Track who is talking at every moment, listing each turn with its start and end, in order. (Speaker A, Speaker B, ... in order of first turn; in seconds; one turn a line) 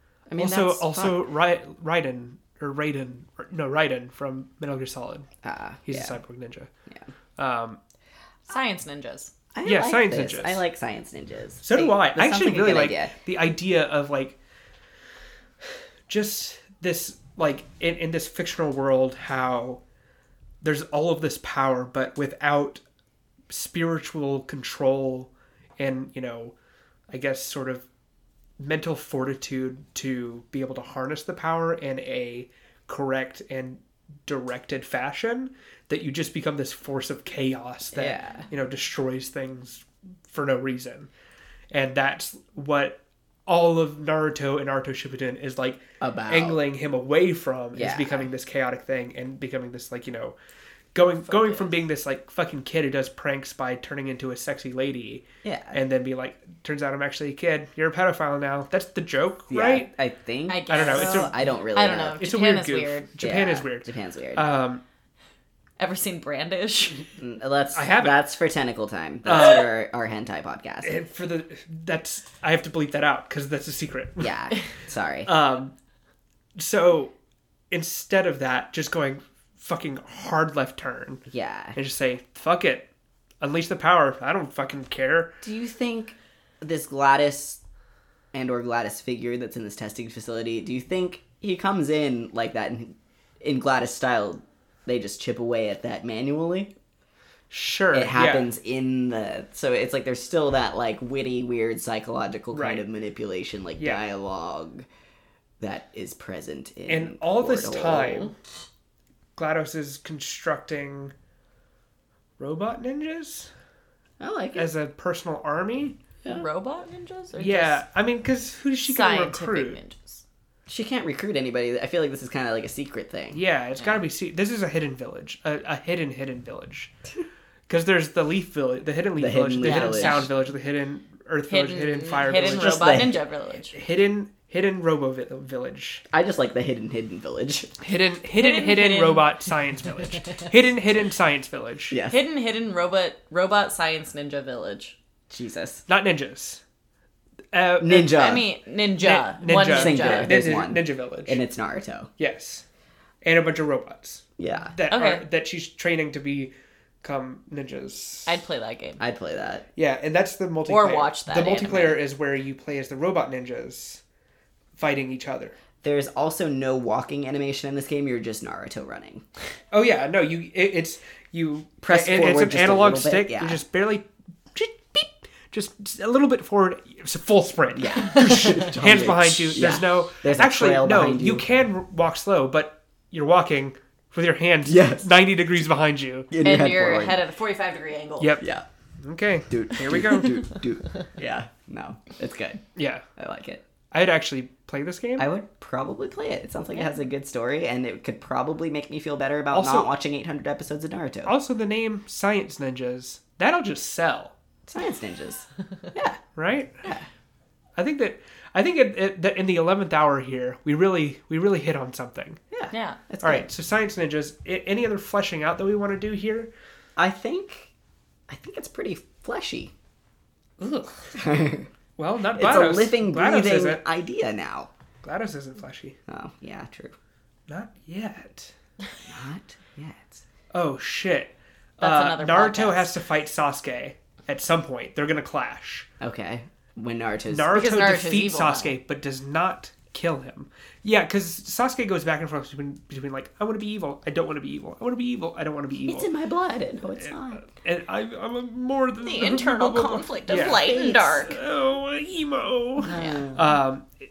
Speaker A: 0.3-1.3
Speaker B: 0.4-5.3
Speaker A: 5.4-6.2
Speaker B: 5.9-6.7
Speaker B: 7.4-7.8
Speaker C: 8.5-9.3
Speaker A: 9.5-13.1
Speaker B: 9.6-10.6
Speaker B: 11.6-14.4
Speaker B: 16.1-19.8
Speaker B: 20.6-22.8
Speaker B: 23.5-26.5
Speaker B: 27.1-27.9
Speaker B: 28.6-41.1
Speaker A: 37.9-38.5
Speaker B: 41.7-50.4
Speaker A: 46.0-46.6
Speaker A: 47.7-48.3
Speaker B: 50.9-59.9
Speaker A: 55.4-55.8
Speaker A: 59.5-62.2
Speaker C: 60.5-63.1
Speaker B: 60.7-61.5
Speaker B: 62.2-64.8
Speaker A: 63.2-64.5
Speaker C: 65.8-67.0
Speaker A: 67.2-71.0
Speaker B: 67.7-68.2
Speaker B: 69.3-69.7
Speaker B: 70.8-74.3
Speaker A: 74.2-75.3
Speaker B: 75.3-75.7
Speaker B: 76.6-77.1
Speaker B: 77.7-81.2
Speaker A: 81.3-81.8
Speaker B: 81.8-82.9
Speaker B: 83.4-85.4
Speaker A: 85.4-87.6
Speaker A: 88.3-96.7
Speaker B: 97.5-98.5
Speaker A: 97.9-104.9
Speaker B: 102.5-102.8
Speaker A: 105.6-108.3
Speaker B: 106.9-108.3
Speaker B: 109.4-111.1
Speaker B: 112.4-113.5
Speaker A: 114.2-114.7
Speaker B: 114.6-116.0
Speaker C: 116.3-117.8
Speaker B: 117.4-119.8
Speaker C: 118.8-120.2
Speaker A: 120.7-123.4
Speaker B: 123.3-126.9
Speaker B: 127.7-133.1
Speaker A: 129.2-130.3
Speaker C: 129.6-130.3
Speaker C: 131.5-133.8
Speaker A: 132.4-133.2
Speaker B: 133.7-136.0
Speaker A: 136.1-137.8
Speaker B: 137.8-142.0
Speaker C: 138.4-139.3
Speaker A: 141.9-142.2
Speaker C: 142.1-145.0
Speaker A: 145.3-145.8
Speaker B: 145.9-146.6
Speaker B: 147.5-148.3
Speaker A: 147.8-148.5
Speaker C: 148.0-150.4
Speaker B: 149.0-151.4
Speaker A: 149.7-152.1
Speaker B: 152.2-152.6
Speaker B: 153.2-156.5
Speaker A: 154.4-154.7
Speaker C: 154.9-155.2
Speaker B: 157.0-158.4
Speaker C: 158.3-159.0
Speaker A: 159.0-159.7
Speaker B: 159.8-164.0
Speaker C: 160.7-162.0
Speaker B: 164.8-165.6
Speaker A: 165.8-169.2
Speaker B: 169.7-186.3
Speaker A: 171.8-173.6
Speaker A: 177.8-181.5
Speaker A: 184.6-185.2
Speaker A: 186.3-187.2
Speaker C: 186.4-188.4
Speaker B: 188.2-188.5
Speaker B: 189.0-190.6
Speaker A: 189.5-192.6
Speaker B: 192.8-193.1
Speaker A: 193.2-193.6
Speaker B: 193.9-195.3
Speaker A: 195.2-201.3
Speaker B: 199.5-199.9
Speaker B: 201.3-204.3
Speaker A: 204.7-206.2
Speaker B: 206.3-206.9
Speaker B: 207.8-212.4
Speaker A: 212.5-213.5
Speaker C: 212.7-213.0
Speaker B: 213.2-216.5
Speaker A: 217.0-217.7
Speaker A: 218.3-219.7
Speaker B: 220.6-221.2
Speaker A: 221.1-221.7
Speaker B: 222.0-223.8
Speaker A: 222.3-224.7
Speaker B: 225.0-226.0
Speaker A: 226.1-226.9
Speaker B: 227.5-228.5
Speaker A: 229.1-230.2
Speaker B: 230.5-235.9
Speaker C: 231.8-232.9
Speaker A: 236.0-237.6
Speaker B: 237.3-246.1
Speaker C: 237.5-238.8
Speaker A: 245.8-247.4
Speaker B: 247.0-253.9
Speaker A: 249.0-251.3
Speaker C: 250.3-251.3
Speaker A: 252.8-253.6
Speaker C: 252.8-253.3